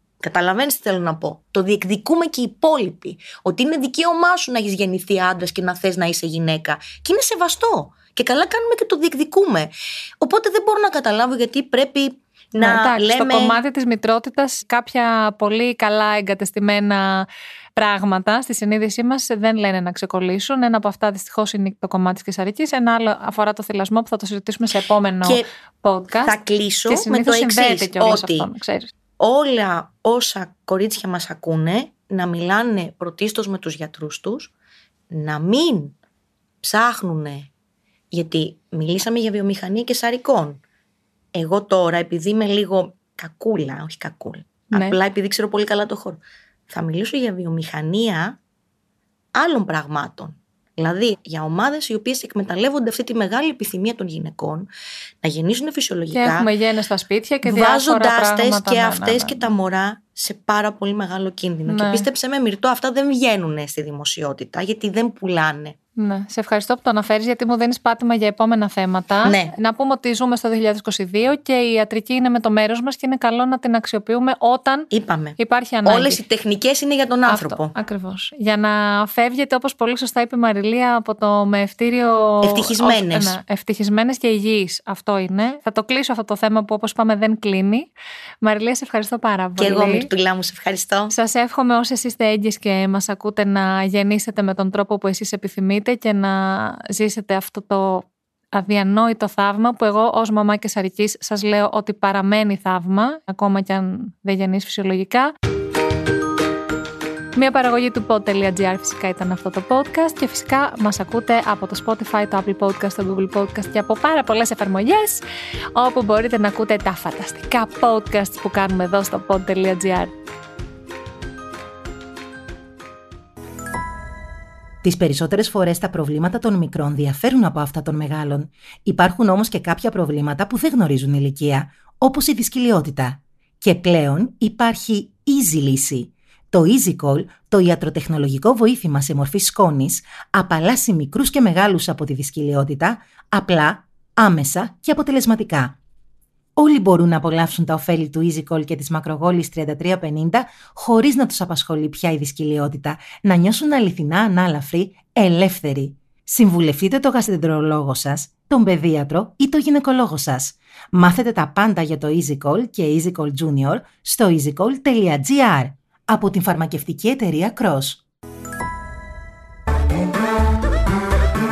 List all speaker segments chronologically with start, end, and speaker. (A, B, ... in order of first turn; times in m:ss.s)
0:00.2-0:13.6 A
0:12.5-0:26.3 B
0:26.2-0:28.5 A
0:26.9-0:28.9 B
0:29.2-0:34.5 A
0:35.1-0:36.0 A
0:36.6-0:37.5 A
0:38.1-0:40.6 A
0:41.3-0:48.4 A
0:44.7-0:45.0 B
0:49.3-0:54.7 A
0:55.2-0:56.5 A
0:56.1-0:59.5 B
0:57.4-1:05.8 A
1:01.7-1:02.1 B
1:06.0-1:16.2 B
1:09.2-1:09.5 A
1:14.9-1:17.7 A
1:17.3-1:27.9 B
1:22.4-1:23.4 A
1:28.4-1:30.1 B
1:29.6-1:31.1 A
1:31.1-1:45.3 B
1:47.3-1:55.2 B
1:55.7-2:00.1 B
2:04.8-2:25.8 C
2:26.6-2:48.0 C